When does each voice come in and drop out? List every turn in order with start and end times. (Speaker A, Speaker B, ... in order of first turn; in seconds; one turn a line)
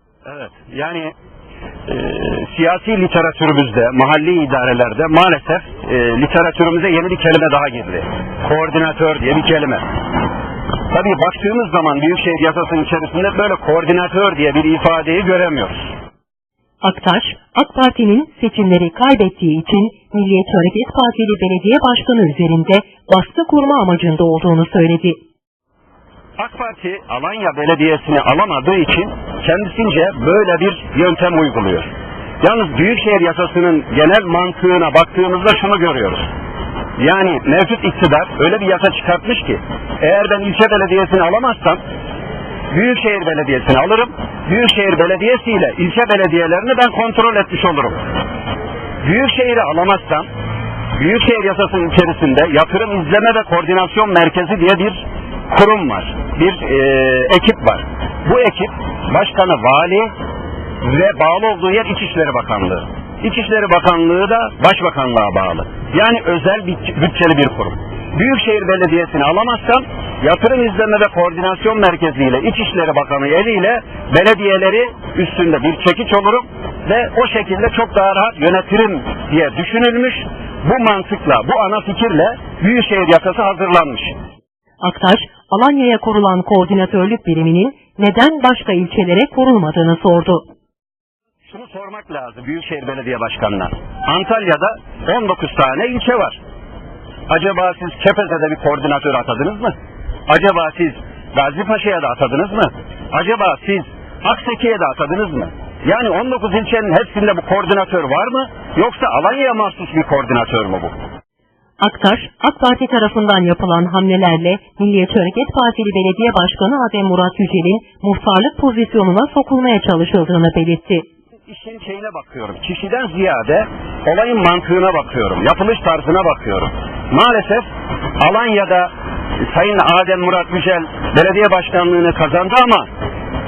Speaker A: 0.2-1.1
Speaker A: 1.9-9.8
Speaker A: 10.9-15.9
Speaker B: 16.8-25.2
Speaker A: 26.4-31.9
Speaker A: 32.4-36.3
Speaker A: 37.0-41.8
Speaker A: 42.7-48.0
Speaker A: 49.0-50.3
Speaker A: 51.0-60.1
Speaker A: 60.8-84.1
Speaker B: 84.8-90.4
Speaker A: 91.5-96.4
Speaker A: 97.3-99.8
Speaker A: 100.3-110.9
Speaker B: 111.8-121.0
Speaker A: 121.5-127.7
Speaker A: 128.2-132.9